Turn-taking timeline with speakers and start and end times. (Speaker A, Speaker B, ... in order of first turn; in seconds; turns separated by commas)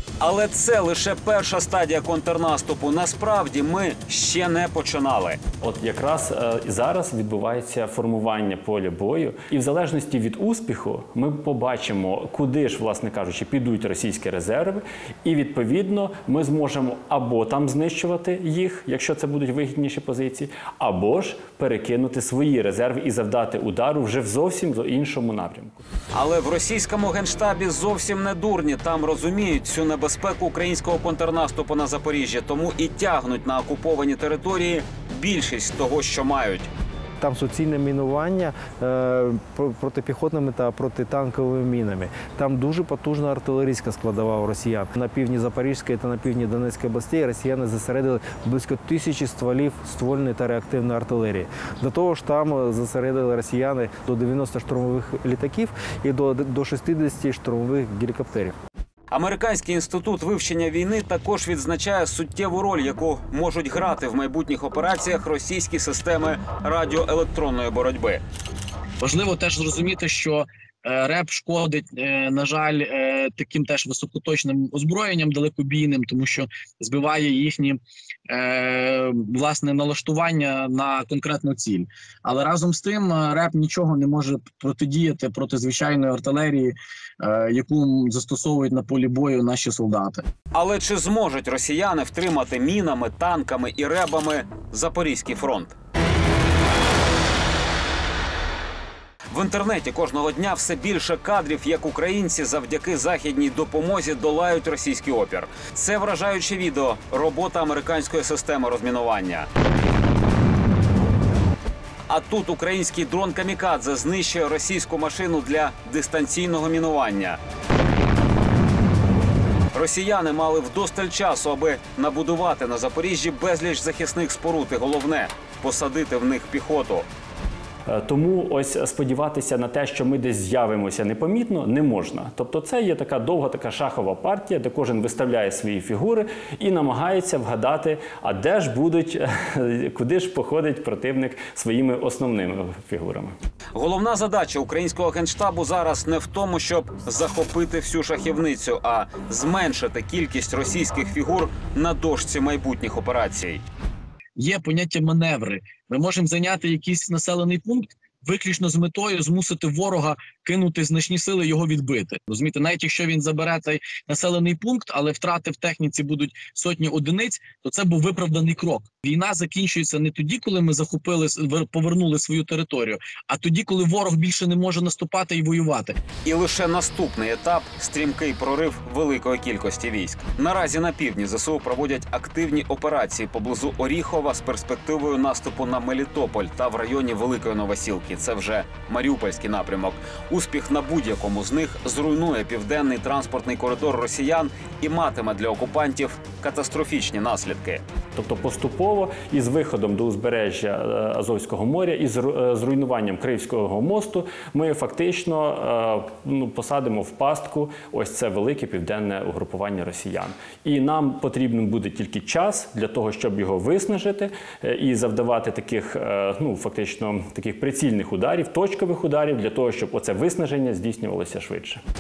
Speaker A: 0.2-5.4, Speaker B: 5.6-25.8, Speaker A: 26.1-36.7, Speaker C: 37.2-58.5, Speaker A: 59.1-68.2, Speaker D: 69.0-90.2, Speaker A: 90.5-95.7, Speaker A: 99.3-109.5, Speaker A: 112.1-117.4, Speaker A: 119.7-127.1, Speaker B: 127.9-143.3, Speaker A: 143.8-153.6, Speaker D: 154.4-176.0, Speaker A: 176.2-197.8, Speaker B: 198.2-221.8